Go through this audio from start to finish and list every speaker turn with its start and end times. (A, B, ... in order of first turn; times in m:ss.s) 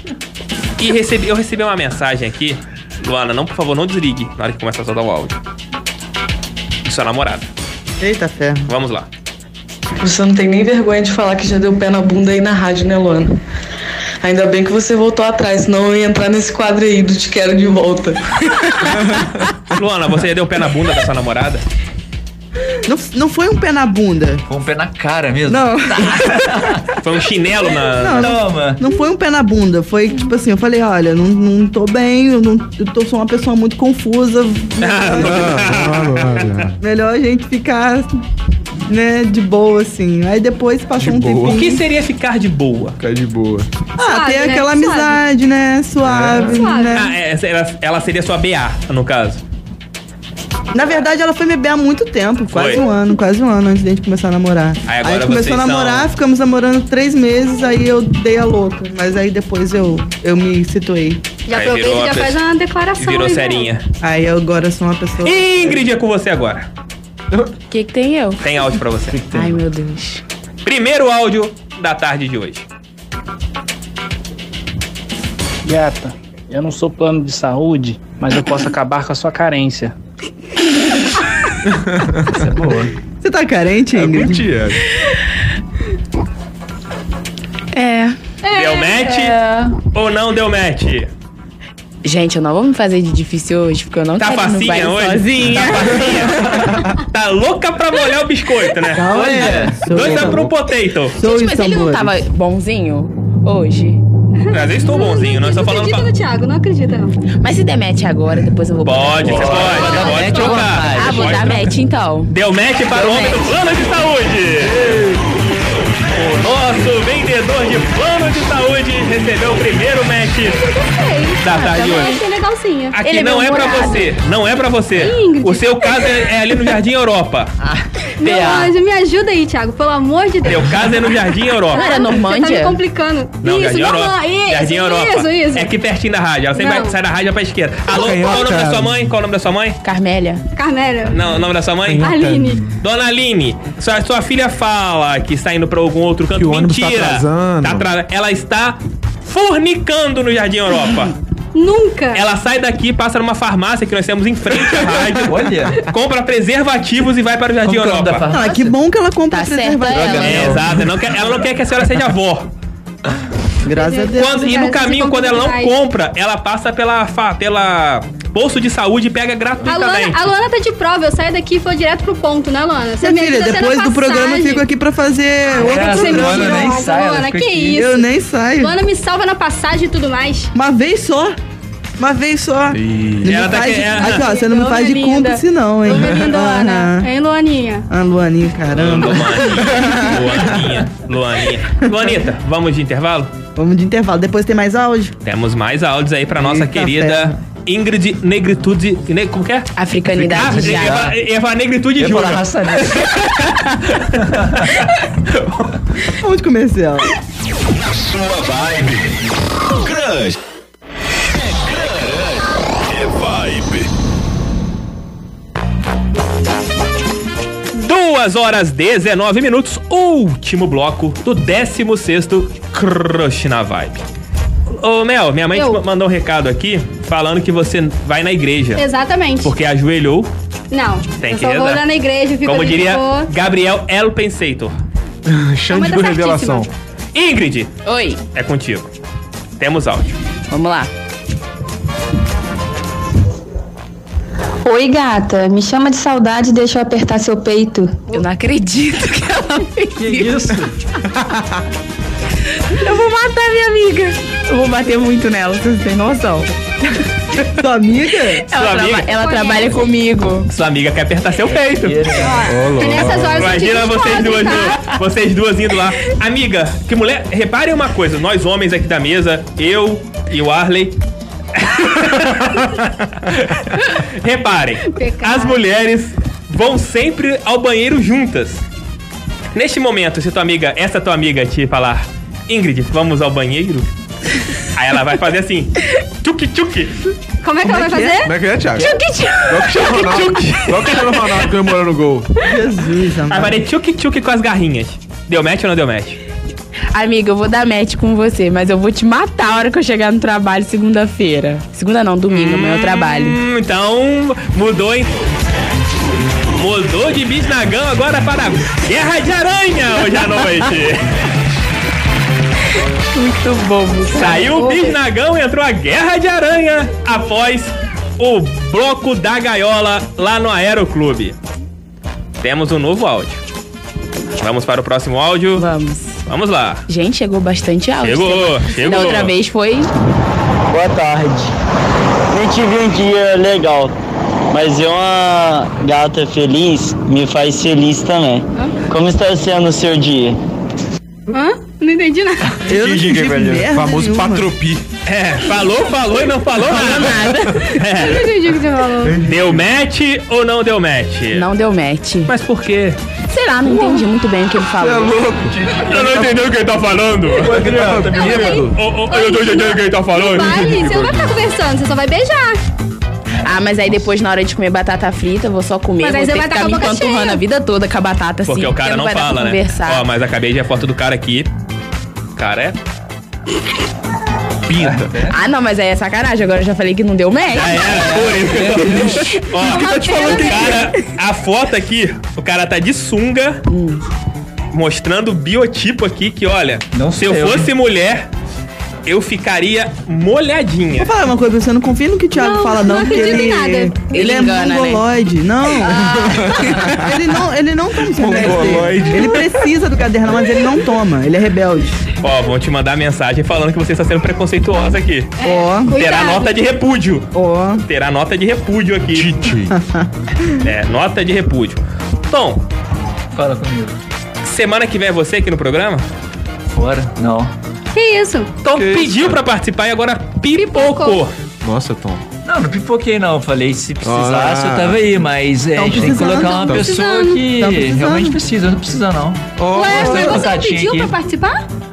0:00.8-0:05.4 A
0:06.8-0:07.5 A
0:08.0-0:08.7 B
0:08.7-0:09.1 A
0:10.0-0:13.4 C
0:14.2-0:18.3 C
0:19.7-0:21.6 A
0:22.8-0:24.4 B
0:24.5-0:26.8 D
0:25.5-0:26.7 B
0:27.0-0:28.4 A
0:28.0-0:35.7 B
0:28.2-0:28.8 D
0:34.8-0:36.6 A
0:35.2-0:36.8 E
0:36.8-0:38.1 B
0:38.9-0:41.8 B
0:41.0-0:41.7 E
0:41.5-0:43.0 A
0:43.0-0:43.7 E
0:44.0-0:47.1 B
0:44.0-0:45.2 F
0:46.0-0:46.6 E
0:46.4-0:47.1 F
0:46.9-0:49.4 A
0:50.7-1:01.2 B
0:52.5-0:52.8 A
0:54.9-0:56.1 A
1:01.5-1:03.7 F
1:01.5-1:02.4 A
1:03.0-1:03.8 A
1:04.0-1:05.8 B
1:05.2-1:06.7 A
1:07.7-1:08.4 G
1:08.4-1:09.2 A
1:09.2-1:09.6 D
1:09.3-1:10.2 G
1:10.6-1:12.7 A
1:15.6-1:19.9 H
1:21.6-1:22.4 E
1:22.3-1:22.9 D
1:23.2-1:24.5 B
1:23.9-1:24.8 E
1:27.7-1:28.2 G
1:28.4-1:29.1 F
1:28.5-1:29.4 A
1:29.9-1:31.1 A
1:32.0-1:36.4 G
1:34.2-1:41.2 A
1:38.9-1:40.5 B
1:39.1-1:40.1 D
1:41.2-1:42.2 B
1:41.2-1:44.0 G
1:44.4-1:47.2 F
1:44.5-1:46.0 A
1:47.4-1:52.3 G
1:48.8-1:51.7 A
1:49.2-1:51.7 D
1:49.7-1:50.6 F
1:52.3-1:54.8 A
1:52.9-1:53.6 G
1:54.7-1:55.2 E
1:56.2-2:00.6 A
2:00.5-2:03.0 F
2:01.4-2:02.2 A
2:01.8-2:02.1 G
2:02.9-2:07.5 A
2:03.0-2:04.1 G
2:05.0-2:06.3 F
2:07.6-2:08.7 D
2:08.2-2:15.7 F
2:10.5-2:11.8 A
2:11.7-2:12.8 G
2:13.4-2:19.8 A
2:16.6-2:17.0 F
2:17.9-2:19.0 E
2:19.8-2:20.4 G
2:20.6-2:21.2 F
2:21.1-2:22.1 A
2:21.9-2:22.7 E
2:22.0-2:22.6 F
2:22.8-2:31.1 A
2:26.3-2:27.9 E
2:31.5-2:32.3 F
2:32.1-2:38.3 A
2:35.3-2:35.8 D
2:37.6-2:38.7 D
2:38.3-2:40.6 B
2:39.3-2:40.6 G
2:39.9-2:40.9 D
2:40.1-2:42.5 A
2:43.6-2:44.6 B
2:43.7-2:45.8 F
2:44.2-2:50.2 A
2:49.6-2:54.7 F
2:53.0-2:56.8 B
2:55.5-2:57.9 D
2:55.5-3:00.5 F
2:57.8-2:58.7 B
3:00.6-3:01.4 B
3:02.0-3:07.1 B
3:02.7-3:03.4 E
3:03.2-3:04.3 A
3:03.9-3:07.9 F
3:07.9-3:10.2 B
3:08.7-3:13.3 A
3:13.6-3:15.1 B
3:15.2-3:19.7 A
3:16.4-3:17.4 B
3:19.8-3:21.1 G
3:20.1-3:21.2 D
3:20.2-3:22.4 A
3:22.0-3:23.1 D
3:23.9-3:25.7 A
3:26.1-3:27.1 B
3:27.9-3:29.2 I
3:29.7-3:30.4 I
3:31.4-3:33.9 I
3:37.7-3:44.0 A
3:44.7-3:48.8 A
3:45.5-3:45.8 F
3:48.8-3:49.5 F
3:49.4-3:50.3 A
3:50.7-3:53.3 F
3:51.2-3:51.8 A
3:52.4-3:54.7 A
3:55.3-3:56.7 E
3:55.7-3:56.7 F
3:57.1-3:57.7 A
3:57.8-3:58.2 G
3:58.3-3:58.9 A
3:59.6-4:00.2 A
4:00.5-4:00.9 G
4:04.6-4:08.0 J
4:08.1-4:10.6 G
4:10.0-4:10.8 D
4:12.7-4:16.5 G
4:17.6-4:18.5 B
4:18.5-4:20.5 G
4:18.5-4:19.2 A
4:19.1-4:19.9 F
4:20.5-4:22.0 A
4:21.8-4:22.5 D
4:22.2-4:24.9 F
4:22.5-4:23.6 E
4:23.3-4:31.0 A
4:31.6-4:38.6 A
4:34.9-4:35.6 F
4:39.5-4:43.9 A
4:44.7-4:47.0 A
4:47.4-4:48.9 F
4:47.6-4:48.3 B
4:48.2-4:48.9 E
4:48.8-4:49.8 G
4:49.5-4:52.3 E
4:49.9-4:50.9 A
4:52.4-4:53.6 B
4:53.3-4:56.2 A
4:56.9-5:03.4 G
5:02.3-5:05.2 A
5:06.5-5:11.1 A
5:13.1-5:14.7 G
5:14.1-5:21.4 A
5:22.4-5:23.4 A
5:24.4-5:25.7 A
5:25.6-5:26.2 G
5:26.3-5:26.8 A
5:26.9-5:29.9 G
5:28.0-5:29.3 A
5:30.7-5:31.5 K
5:32.3-5:33.9 K
5:34.5-5:40.4 K
5:41.3-5:42.6 F
5:42.6-5:44.5 B
5:42.8-5:43.6 K
5:43.6-5:44.8 E
5:45.1-5:48.3 A
5:46.6-5:47.8 G
5:47.7-5:49.3 F
5:49.1-5:49.6 E
5:49.2-5:51.5 A
5:51.3-5:52.3 G
5:52.3-5:53.0 A
5:53.3-5:55.3 G
5:54.8-5:56.4 E
5:55.9-6:00.7 A
5:57.4-5:58.8 E
5:57.5-5:58.1 D
5:58.1-6:02.6 F
6:00.3-6:01.4 E
6:03.4-6:10.1 G
6:06.0-6:07.4 F
6:08.4-6:11.5 A
6:12.4-6:12.8 A
6:14.7-6:15.1 E
6:14.8-6:15.4 D
6:15.3-6:18.3 G
6:17.5-6:23.6 A
6:18.0-6:19.4 D
6:19.5-6:20.9 F
6:23.7-6:24.0 G
6:24.7-6:28.3 A
6:26.9-6:27.7 D
6:29.0-6:31.1 A
6:31.0-6:42.0 B
6:32.4-6:34.0 F
6:34.1-6:35.1 G
6:36.0-6:37.1 E
6:38.1-6:39.6 E
6:42.2-6:49.5 A
6:45.4-6:46.6 F
6:45.4-6:46.0 B
6:47.3-6:47.8 B
6:49.2-6:49.7 I
6:49.4-6:49.7 E
6:49.7-6:50.1 B
6:50.6-6:52.6 A
6:53.3-6:54.0 D
6:54.4-6:56.1 A
6:56.7-6:57.5 D
6:57.9-6:58.5 F
6:58.6-7:01.3 A
6:58.7-6:59.4 E
7:00.6-7:01.2 F
7:01.6-7:02.2 E
7:02.4-7:11.1 D
7:04.0-7:05.1 E
7:05.8-7:06.9 B
7:06.4-7:07.4 F
7:07.6-7:08.4 B
7:09.6-7:10.4 E
7:09.7-7:11.6 F